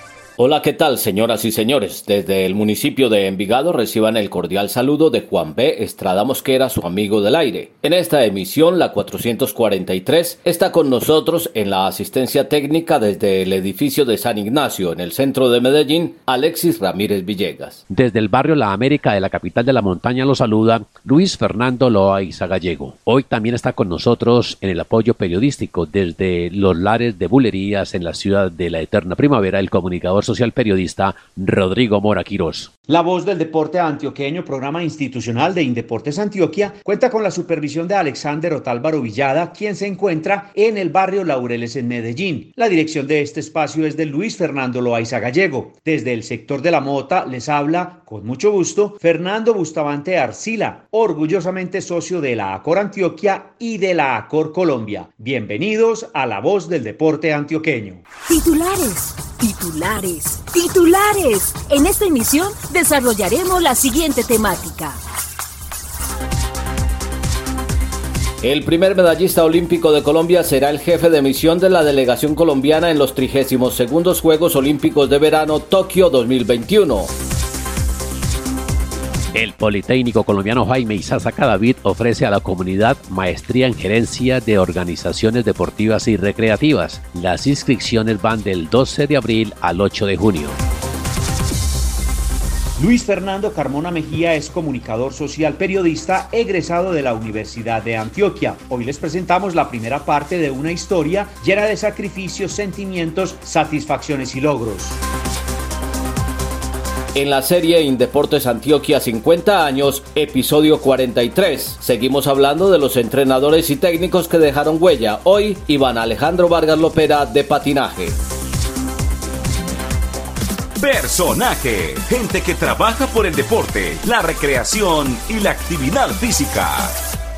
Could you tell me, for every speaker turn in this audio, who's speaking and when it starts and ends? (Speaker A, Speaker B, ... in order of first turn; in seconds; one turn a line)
Speaker A: 0.4-17.8
Speaker B: 17.9-32.7
Speaker C: 32.9-58.0
Speaker D: 58.3-65.0
Speaker A: 68.4-77.1
Speaker B: 79.3-90.6
Speaker C: 92.8-105.0
Speaker A: 107.2-118.1
Speaker E: 120.8-127.0